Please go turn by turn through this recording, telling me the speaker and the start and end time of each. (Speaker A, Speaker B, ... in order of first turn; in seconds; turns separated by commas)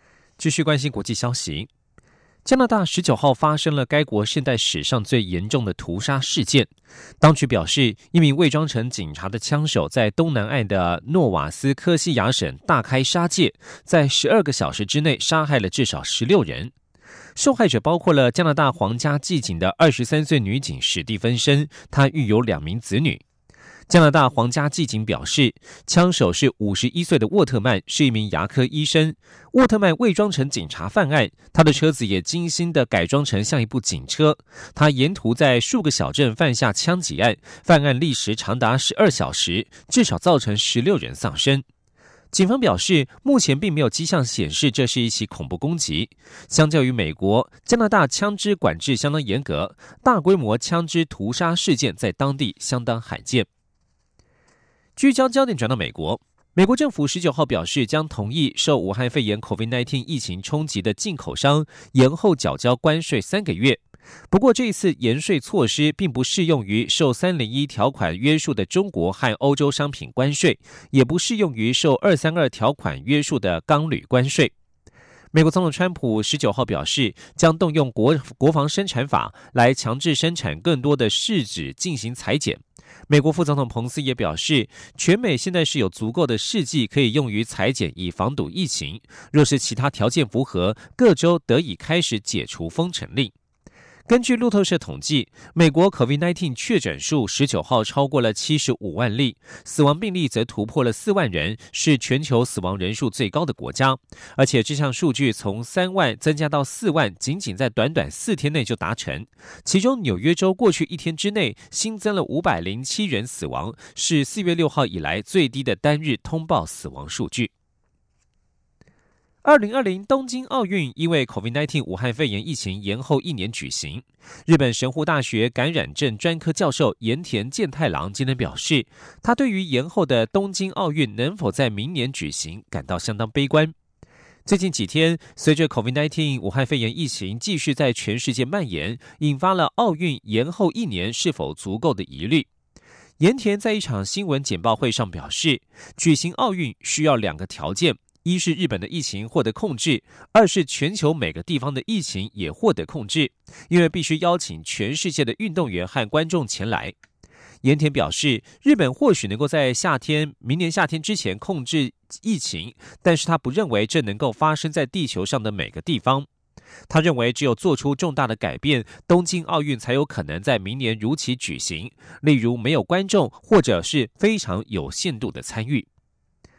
Speaker A: 0.4-1.7, Speaker A: 2.4-16.7, Speaker A: 17.4-23.2, Speaker A: 23.9-41.6, Speaker A: 42.3-53.5, Speaker A: 55.0-74.5, Speaker A: 75.3-93.3, Speaker A: 94.1-117.5, Speaker A: 119.4-133.7, Speaker A: 134.4-142.5, Speaker A: 143.2-156.9, Speaker A: 157.6-166.3, Speaker A: 166.9-175.9